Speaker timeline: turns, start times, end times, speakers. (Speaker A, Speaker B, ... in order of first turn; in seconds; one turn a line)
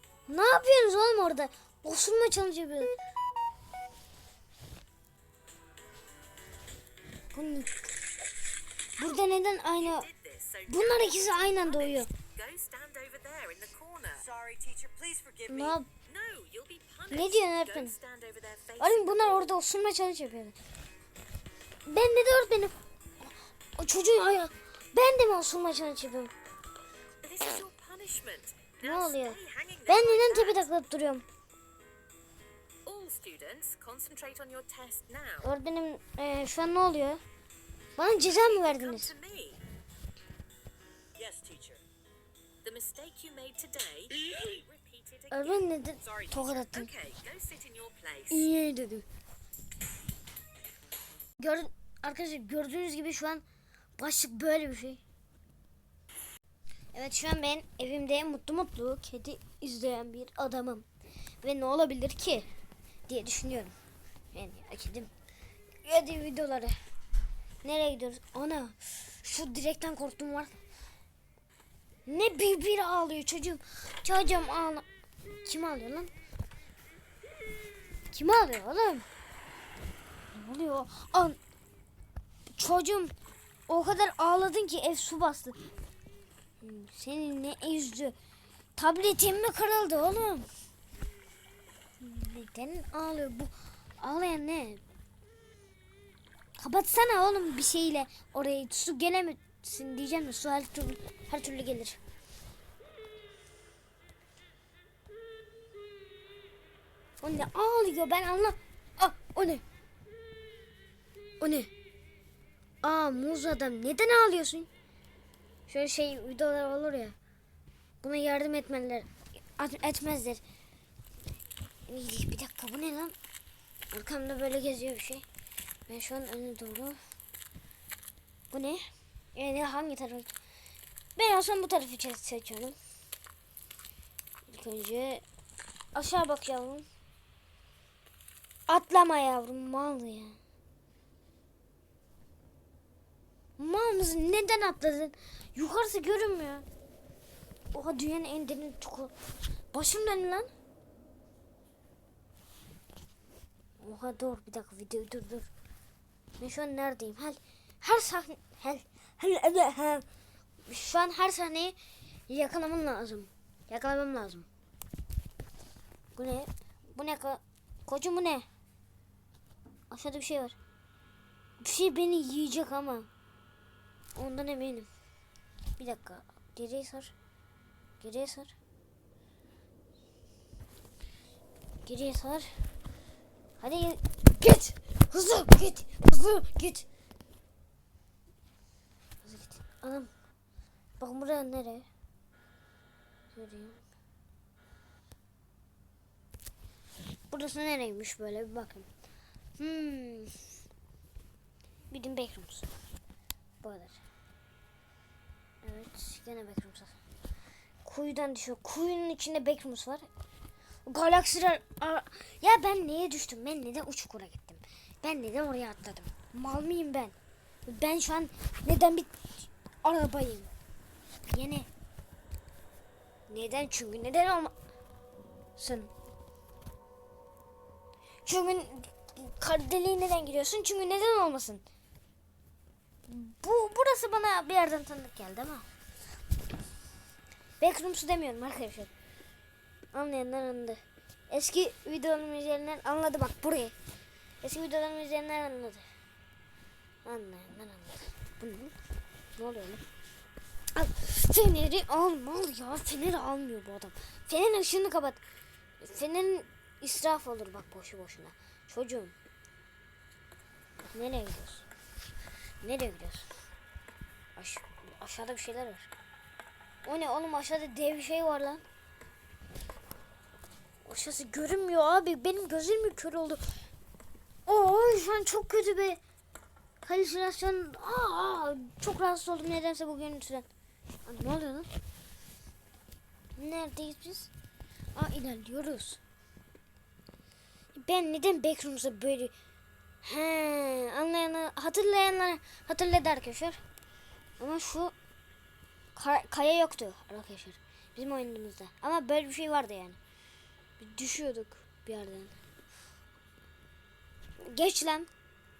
Speaker A: 0.3-2.9
Speaker A: 7.3-7.9
Speaker A: 9.0-10.1
Speaker B: 9.7-14.3
Speaker A: 10.7-12.1
Speaker C: 14.2-15.8
Speaker A: 15.5-15.9
Speaker B: 16.0-19.5
Speaker A: 17.1-17.9
Speaker A: 18.8-20.6
Speaker A: 21.9-26.3
Speaker B: 27.2-30.6
Speaker A: 28.8-31.2
Speaker B: 32.8-35.5
Speaker A: 35.4-37.2
Speaker A: 38.0-39.1
Speaker B: 38.4-39.6
Speaker C: 41.1-41.8
Speaker B: 42.6-48.5
Speaker A: 45.3-46.9
Speaker C: 46.0-46.3
Speaker A: 48.3-49.0
Speaker A: 51.4-53.4
Speaker A: 54.0-55.0
Speaker A: 56.9-60.9
Speaker A: 61.4-62.5
Speaker A: 63.1-63.7
Speaker A: 64.3-65.1
Speaker A: 65.8-66.8
Speaker A: 67.6-70.6
Speaker A: 72.0-74.8
Speaker A: 75.4-76.1
Speaker A: 78.1-79.0
Speaker A: 80.3-81.4
Speaker A: 82.5-83.1
Speaker A: 83.7-85.6
Speaker A: 86.6-88.1
Speaker A: 88.8-90.5
Speaker A: 92.0-94.8
Speaker A: 96.6-102.0
Speaker A: 107.2-109.6
Speaker A: 111.4-111.7
Speaker A: 112.8-114.7
Speaker A: 115.7-117.1
Speaker A: 118.0-120.4
Speaker A: 121.9-123.1
Speaker A: 123.9-125.2
Speaker A: 125.9-127.0
Speaker A: 128.5-130.3
Speaker A: 131.2-132.8
Speaker A: 134.5-135.2
Speaker A: 135.9-136.8
Speaker A: 138.7-140.4
Speaker A: 143.6-146.6
Speaker A: 147.7-149.1
Speaker A: 149.7-150.5
Speaker A: 153.8-155.5
Speaker A: 156.4-160.0
Speaker A: 160.7-161.8
Speaker A: 162.3-164.5
Speaker A: 166.2-168.4
Speaker A: 169.9-170.6
Speaker A: 171.6-173.1
Speaker A: 174.1-174.9
Speaker A: 175.8-177.1
Speaker A: 178.0-178.5
Speaker A: 181.8-182.5
Speaker A: 183.6-186.8
Speaker A: 189.2-190.1
Speaker A: 191.0-191.9
Speaker A: 193.3-193.8
Speaker A: 197.3-198.9
Speaker A: 199.6-200.3
Speaker A: 201.9-202.7
Speaker A: 203.6-204.0
Speaker A: 205.6-206.9
Speaker A: 207.8-210.1
Speaker A: 210.8-217.1
Speaker A: 217.7-219.1
Speaker A: 219.8-220.5
Speaker A: 221.3-221.7
Speaker A: 223.3-224.5
Speaker A: 225.6-225.9
Speaker A: 228.2-231.6
Speaker A: 233.1-235.6
Speaker A: 237.6-238.9
Speaker A: 239.9-243.7
Speaker A: 244.4-245.8
Speaker A: 247.0-248.8
Speaker A: 249.3-249.8
Speaker A: 250.7-255.2
Speaker A: 255.8-259.1
Speaker A: 260.9-261.6
Speaker A: 262.6-263.3
Speaker A: 264.4-265.9
Speaker A: 266.8-268.6
Speaker A: 270.8-273.4
Speaker A: 274.4-276.0
Speaker A: 276.8-280.5
Speaker A: 281.1-281.7
Speaker A: 283.4-284.3
Speaker A: 284.9-286.0
Speaker A: 287.7-289.3
Speaker A: 290.0-293.6
Speaker A: 294.4-294.9
Speaker A: 295.9-300.0
Speaker A: 300.8-302.4
Speaker A: 304.4-305.1